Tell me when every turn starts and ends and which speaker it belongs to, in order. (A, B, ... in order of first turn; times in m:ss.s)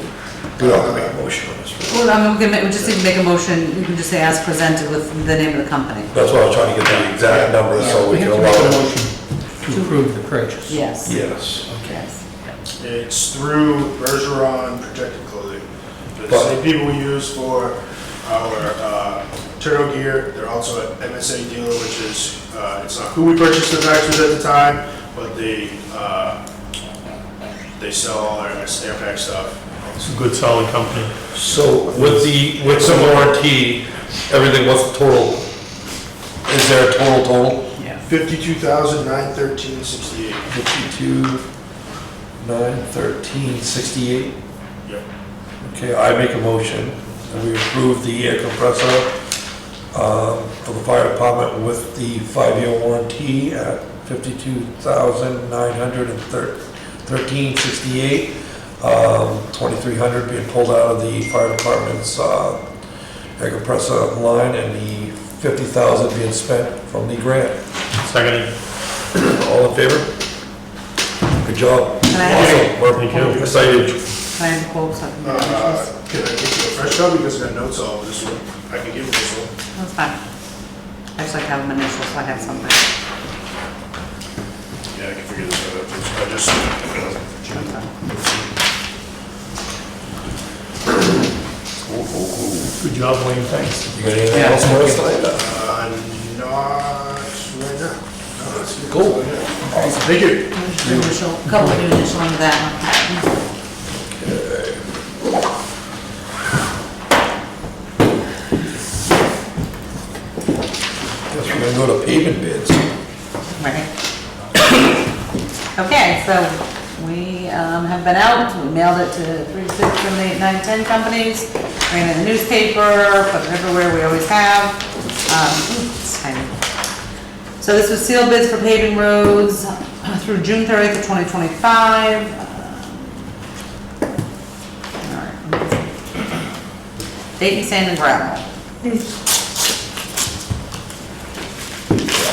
0:00.6-0:02.0 A
0:00.6-0:01.2 B
0:01.9-0:06.1 C
0:06.1-0:08.8 A
0:06.9-0:08.6 B
0:07.8-0:10.8 D
0:09.7-0:10.0 C
0:10.6-0:11.2 C
0:11.0-0:11.9 A
0:11.8-0:12.2 C
0:12.8-0:15.6 B
0:16.2-0:26.4 B
0:27.8-0:30.3 B
0:30.0-0:31.1 E
0:31.3-0:35.5 A
0:31.4-0:32.1 B
0:32.0-0:32.2 E
0:32.6-0:33.4 B
0:36.4-0:37.6 A
0:38.0-0:40.5 B
0:40.5-0:41.4 A
0:42.4-0:44.4 A
0:45.6-0:49.1 A
0:49.9-1:02.6 A
1:03.4-1:07.6 A
1:08.0-1:08.5 E
1:09.1-1:10.1 A
1:11.4-1:14.0 A
1:12.1-1:13.5 C
1:12.2-1:13.9 E
1:14.3-1:15.9 C
1:15.2-1:19.5 B
1:19.8-1:20.2 C
1:21.2-1:22.8 C
1:24.9-1:27.4 B
1:27.4-1:27.9 C
1:31.8-1:32.8 A
1:32.8-1:33.9 E
1:33.9-1:35.4 A
1:34.3-1:35.0 D
1:35.3-1:40.4 B
1:38.8-1:40.0 A
1:39.7-1:43.2 C
1:40.8-1:41.2 A
1:44.0-1:44.8 A
1:51.3-1:52.9 A
1:53.6-1:53.9 C
1:55.8-2:06.5 C
2:07.6-2:13.2 C
2:15.0-2:15.9 C
2:17.4-2:18.4 C